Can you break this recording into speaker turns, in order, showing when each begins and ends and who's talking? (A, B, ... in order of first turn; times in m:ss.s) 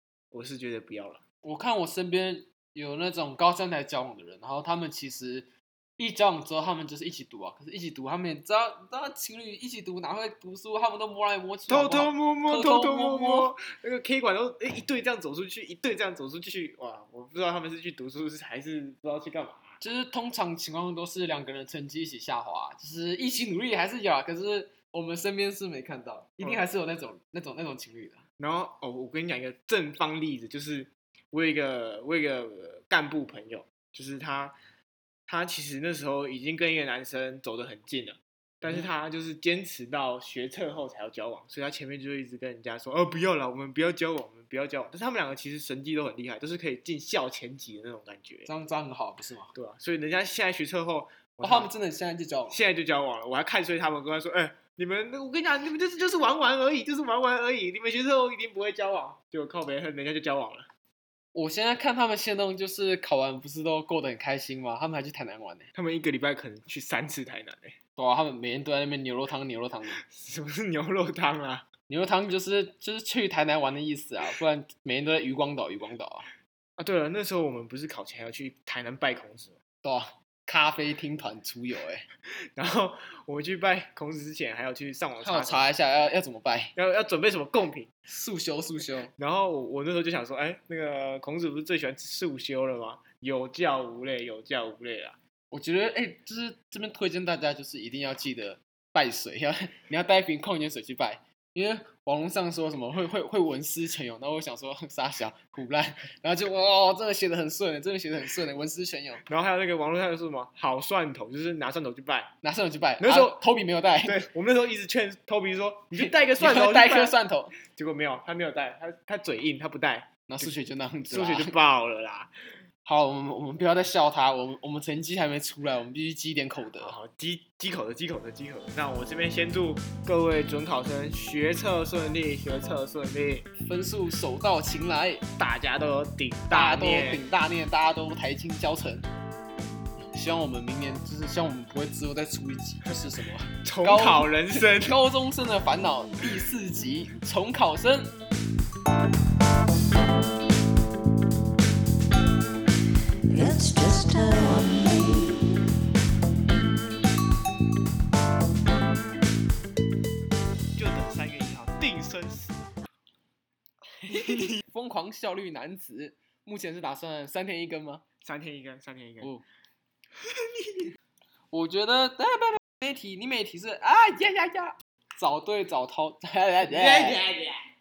0:00.3-0:01.2 A
0:01.4-0:13.5 B
0:11.7-0:19.8 A
0:19.8-0:28.2 B
0:28.4-0:34.6 A
0:35.3-0:48.5 A
0:48.5-0:49.5 B
0:49.5-0:51.7 A
0:51.4-0:52.6 B
0:52.5-1:00.7 A
1:01.3-1:05.7 B
1:05.8-1:07.8 A
1:08.0-1:10.0 B
1:10.0-1:11.7 A
1:11.9-1:16.3 B
1:16.8-1:19.6 A
1:19.8-1:22.1 B
1:22.6-1:25.7 A
1:25.2-1:26.7 B
1:26.8-1:27.9 A
1:28.1-1:29.1 B
1:29.2-1:35.2 A
1:35.5-1:49.2 B
1:49.3-1:52.4 A
1:52.4-1:54.2 B
1:53.0-2:00.5 A
1:56.0-1:57.5 B
2:00.3-2:01.5 B
2:01.1-2:02.3 A
2:02.8-2:07.0 B
2:06.8-2:13.5 A
2:13.7-2:15.2 B
2:15.4-2:17.2 A
2:16.5-2:19.1 B
2:20.1-2:28.1 B
2:23.6-2:25.0 A
2:33.3-2:35.7 C
2:40.8-2:42.7 A
2:44.0-2:48.0 B
2:48.2-2:49.3 A
2:50.2-2:50.9 A
2:51.5-2:57.2 B
2:56.6-2:57.6 A